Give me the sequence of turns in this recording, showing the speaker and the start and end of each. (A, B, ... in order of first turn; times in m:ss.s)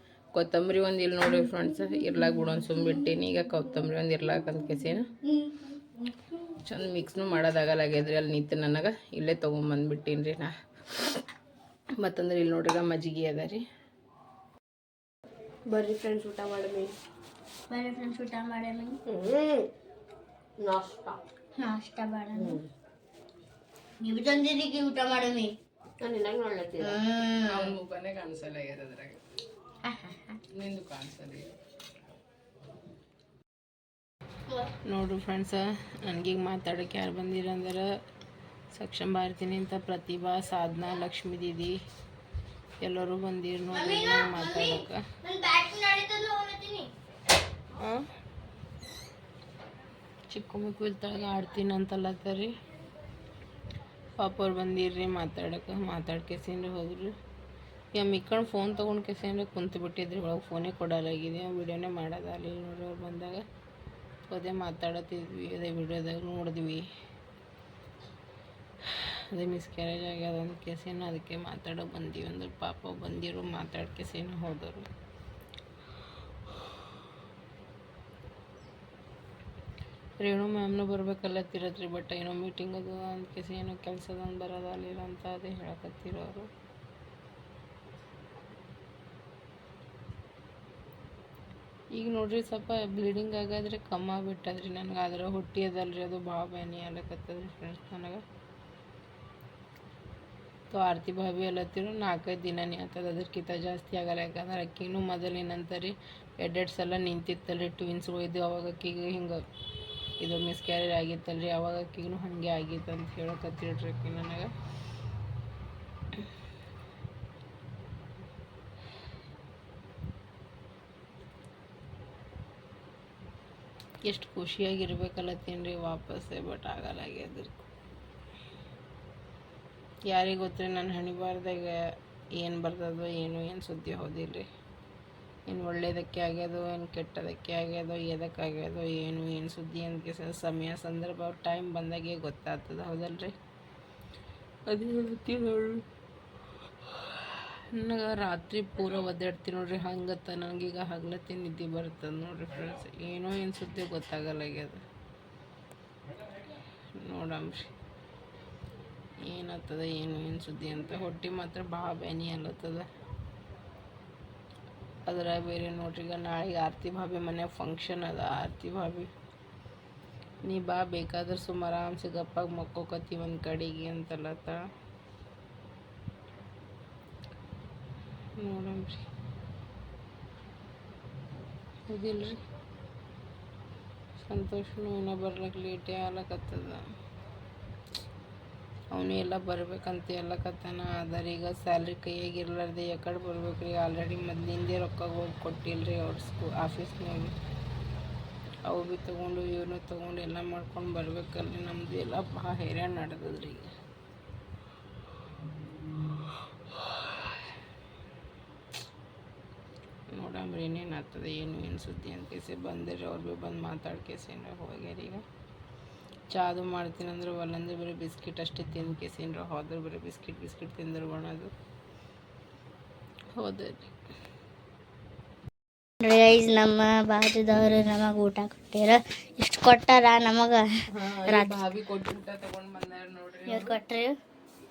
0:00.3-0:05.1 A
0:05.2-0:06.5 B
0:06.6-0:10.5 A
0:12.0-0:13.6 A
0:15.7-0:16.9 C
0:17.7-0:19.0 B
0:19.1-0:19.7 C
0:20.6-0:21.2 C
0:21.6-0:22.6 B
0:22.4-0:22.7 C
0:24.0-0:25.6 B
0:26.0-0:27.0 C
0:26.8-0:27.8 B
0:27.5-0:29.2 A
0:29.8-0:30.4 B
0:30.5-0:31.6 A
0:34.9-0:37.9 A
0:38.7-0:41.8 A
0:42.8-0:45.0 A
0:43.7-0:46.9 B
0:47.8-0:48.0 A
0:50.3-0:52.5 A
0:54.2-0:57.1 A
0:57.9-1:03.4 A
1:04.3-1:06.9 A
1:08.9-1:14.9 A
1:20.2-1:26.5 A
1:31.9-1:38.2 A
1:40.7-1:49.4 A
1:50.2-1:54.5 A
2:04.0-2:07.7 A
2:10.1-2:14.5 A
2:15.5-2:23.3 A
2:24.7-2:25.8 A
2:27.7-2:34.8 A
2:37.0-2:37.7 A
2:39.2-2:42.9 A
2:45.1-2:49.1 A
2:50.4-2:54.6 A
2:58.4-2:59.0 A
3:01.9-3:02.4 A
3:04.2-3:06.8 A
3:08.9-3:17.3 A
3:18.6-3:23.7 A
3:30.1-3:35.2 A
3:36.3-3:41.5 A
3:43.4-3:43.9 A
3:46.0-3:50.7 B
3:50.9-3:53.8 A
3:51.3-3:51.5 B
3:53.5-3:54.2 B